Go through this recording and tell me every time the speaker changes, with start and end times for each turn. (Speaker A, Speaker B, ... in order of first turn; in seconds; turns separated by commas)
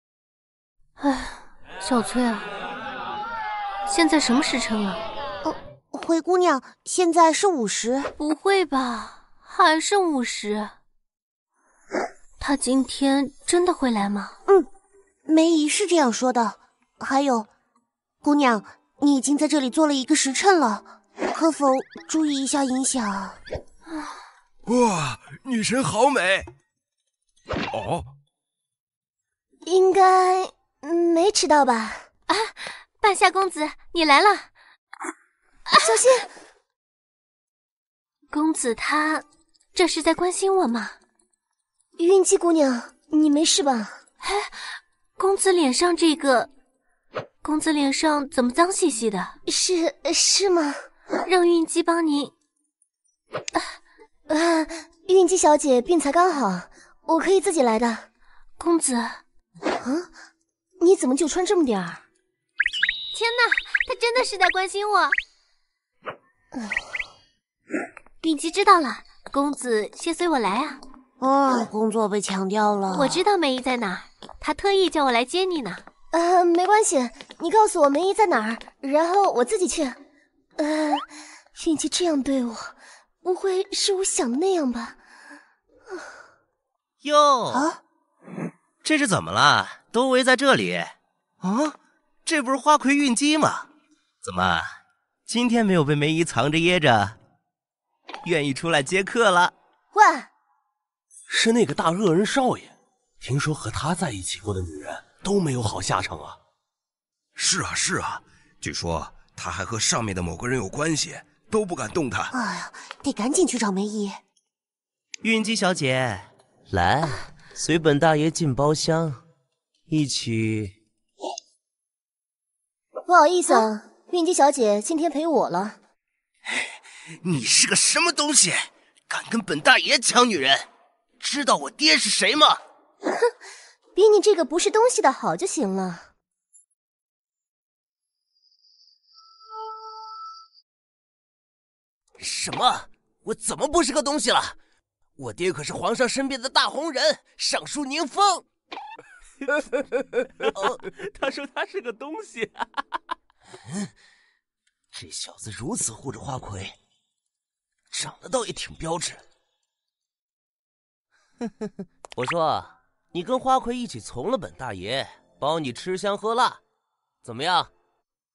Speaker A: 1.0-2.5, Speaker A: 3.9-5.0, Speaker B: 5.4-8.1, Speaker A: 8.2-10.7, Speaker A: 12.4-14.3, Speaker B: 15.3-17.5, Speaker B: 18.2-23.4, Speaker C: 24.6-26.5, Speaker C: 27.7-28.1, Speaker D: 29.6-32.1, Speaker A: 32.3-34.5, Speaker D: 35.8-36.3, Speaker A: 38.3-41.0, Speaker D: 42.0-44.0, Speaker A: 44.2-44.6, Speaker A: 45.2-46.5, Speaker A: 47.4-49.3, Speaker D: 49.5-50.8, Speaker A: 51.2-52.3, Speaker D: 54.3-58.1, Speaker A: 58.6-59.2, Speaker D: 59.8-60.1, Speaker D: 60.8-62.0, Speaker A: 63.1-65.2, Speaker A: 68.2-70.8, Speaker B: 71.2-73.2, Speaker A: 72.9-75.8, Speaker D: 76.1-80.0, Speaker D: 80.6-85.0, Speaker E: 87.0-87.7, Speaker E: 88.8-93.7, Speaker E: 94.2-94.8, Speaker E: 95.3-97.2, Speaker E: 98.2-99.5, Speaker D: 99.9-100.3, Speaker F: 101.3-106.4, Speaker C: 107.3-112.3, Speaker B: 112.3-114.2, Speaker E: 115.2-119.2, Speaker E: 119.9-120.7, Speaker D: 123.0-125.8, Speaker E: 127.2-130.7, Speaker E: 131.2-132.6, Speaker D: 133.9-136.1, Speaker E: 142.2-144.6, Speaker E: 145.2-148.4, Speaker F: 150.8-152.6, Speaker E: 154.9-156.8, Speaker E: 157.9-159.2, Speaker E: 162.2-166.6, Speaker E: 167.2-167.7